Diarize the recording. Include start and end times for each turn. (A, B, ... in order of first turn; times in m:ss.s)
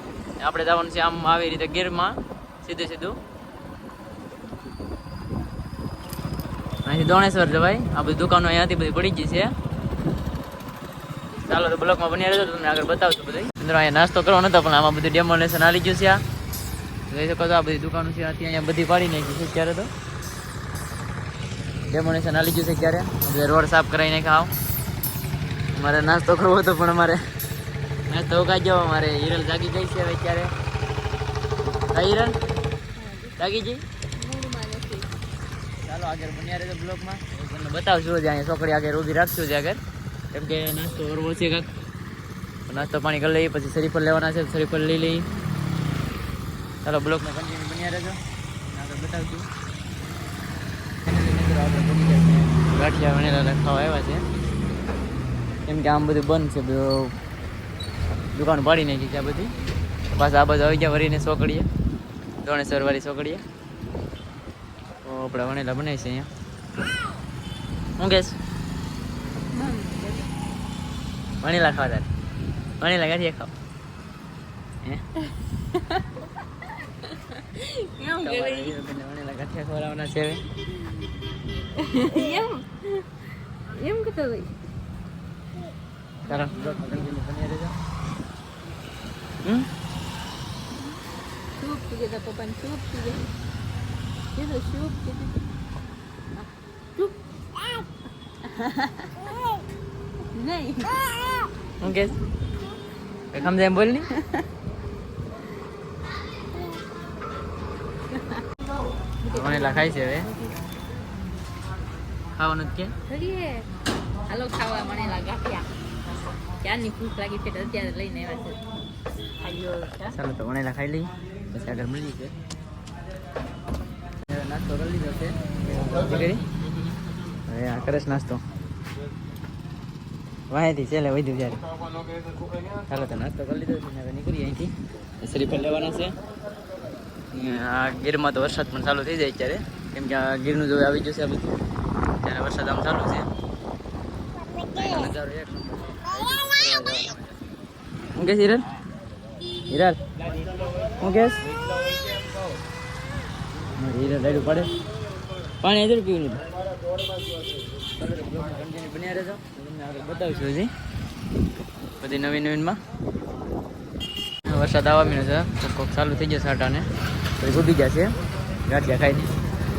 0:00.4-0:03.2 A
0:06.9-0:09.5 A
0:11.4-0:16.2 A
0:17.1-0:19.9 A
0:21.9-0:24.5 A
0:25.7-0:27.2 A
0:28.1-0:30.5 A
0:31.7-0:32.3 A
0:33.0-0:33.4 B
0:33.4-0:33.8 A
0:34.2-0:35.2 B
0:35.8-0:39.8 A
0:40.3-0:41.7 A
0:42.7-0:45.3 A
0:46.8-0:49.5 A
0:51.0-0:54.2 A
0:55.6-0:57.2 A
0:58.3-0:59.5 A
1:00.1-1:01.7 A
1:02.4-1:03.4 A
1:05.0-1:06.3 A
1:08.0-1:08.4 A
1:09.5-1:10.3 B
1:11.4-1:12.1 A
1:12.8-1:13.5 A
1:15.2-1:18.8 B
1:18.2-1:20.4 A
1:21.7-1:24.5 B
1:26.2-1:27.8 A
1:26.3-1:27.1 B
1:31.6-1:33.3 B
1:34.3-1:35.4 B
1:36.4-1:39.6 B
1:40.2-1:41.2 B
1:41.8-1:42.2 A
1:43.3-1:44.1 A
1:44.1-1:44.5 B
1:46.6-1:46.8 B
1:48.1-1:48.4 B
1:49.2-1:50.6 B
1:49.3-1:50.3 A
1:52.4-1:52.9 A
1:53.1-1:53.7 B
1:54.3-1:55.7 B
1:56.6-1:58.6 B
1:59.4-2:00.2 B
2:00.1-2:02.3 A
2:04.2-2:06.5 A
2:07.5-2:08.4 A
2:10.5-2:11.6 A
2:12.9-2:16.2 A
2:17.3-2:21.5 A
2:22.2-2:23.3 A
2:24.7-2:27.3 A
2:28.2-2:28.7 A
2:29.7-2:30.1 A
2:30.9-2:31.5 A
2:33.8-2:34.7 A
2:35.6-2:36.4 A
2:38.0-2:40.7 A
2:42.0-2:42.8 A
2:44.4-2:46.9 A
2:47.4-2:48.2 A
2:48.7-2:49.3 A